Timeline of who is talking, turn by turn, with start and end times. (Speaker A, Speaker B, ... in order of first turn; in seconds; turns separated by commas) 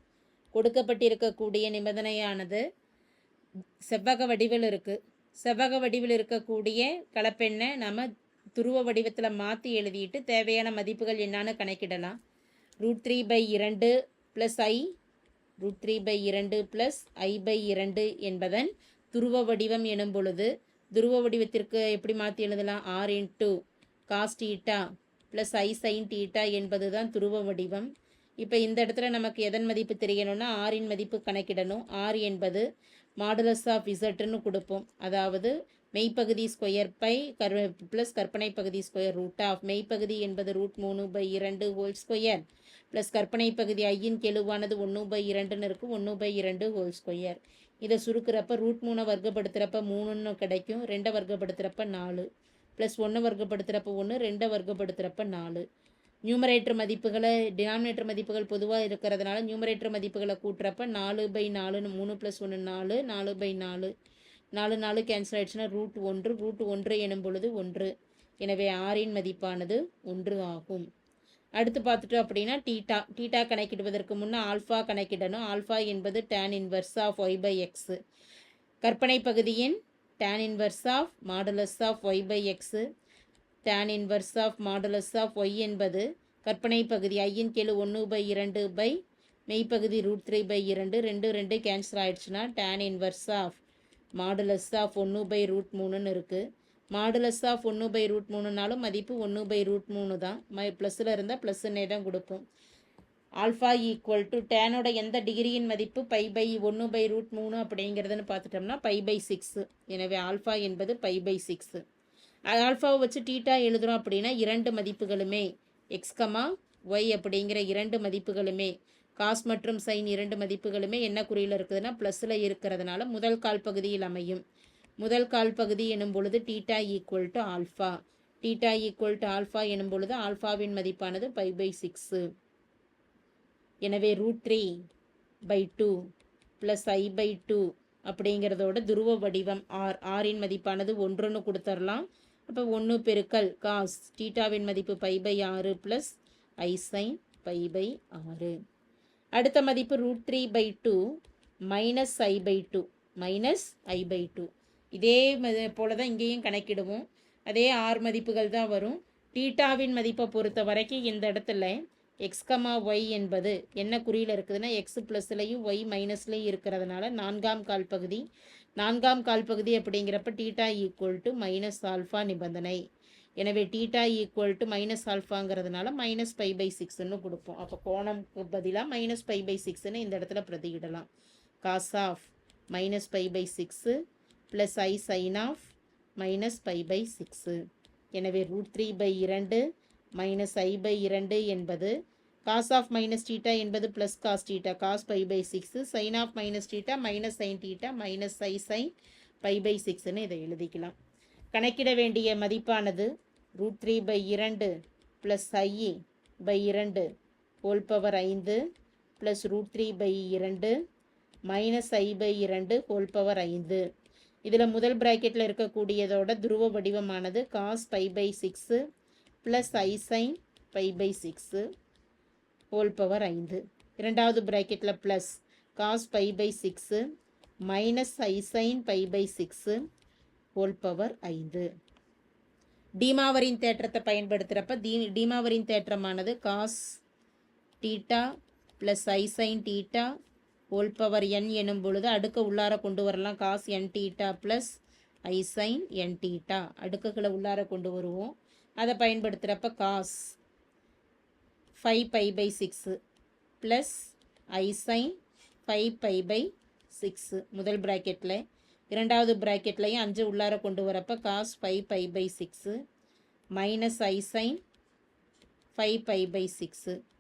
Speaker A: 0.6-2.6, Speaker A: 3.9-12.2, Speaker A: 12.8-14.9, Speaker A: 15.6-23.6, Speaker A: 24.1-24.8, Speaker A: 25.3-27.9, Speaker A: 28.4-32.6, Speaker A: 33.2-42.4, Speaker A: 42.9-52.3, Speaker A: 52.8-55.6, Speaker A: 56.3-63.9, Speaker A: 64.5-67.9, Speaker A: 68.4-70.9, Speaker A: 71.6-78.0, Speaker A: 78.8-82.8, Speaker A: 83.7-89.0, Speaker A: 89.5-93.6, Speaker A: 94.2-96.4, Speaker A: 97.0-102.4, Speaker A: 103.4-111.8, Speaker A: 112.5-124.4, Speaker A: 125.0-132.2, Speaker A: 133.8-134.7, Speaker A: 135.5-135.9, Speaker A: 136.6-148.5, Speaker A: 149.4-151.0, Speaker A: 151.7-168.2, Speaker A: 168.8-172.8, Speaker A: 173.4-181.1, Speaker A: 181.7-183.9, Speaker A: 184.5-187.6, Speaker A: 188.2-189.6, Speaker A: 190.2-191.9, Speaker A: 192.5-198.9, Speaker A: 199.4-200.9, Speaker A: 201.5-204.7, Speaker A: 205.2-207.1, Speaker A: 207.6-208.6, Speaker A: 209.2-210.8, Speaker A: 211.5-213.8, Speaker A: 214.5-218.8, Speaker A: 219.4-221.7, Speaker A: 222.7-227.1, Speaker A: 227.7-229.8, Speaker A: 230.6-231.7, Speaker A: 233.0-237.0, Speaker A: 237.8-238.2, Speaker A: 238.8-240.1, Speaker A: 240.7-244.7, Speaker A: 245.3-250.2, Speaker A: 251.8-253.0, Speaker A: 253.6-255.1, Speaker A: 255.7-258.4, Speaker A: 258.9-262.8, Speaker A: 263.6-264.6, Speaker A: 265.8-266.9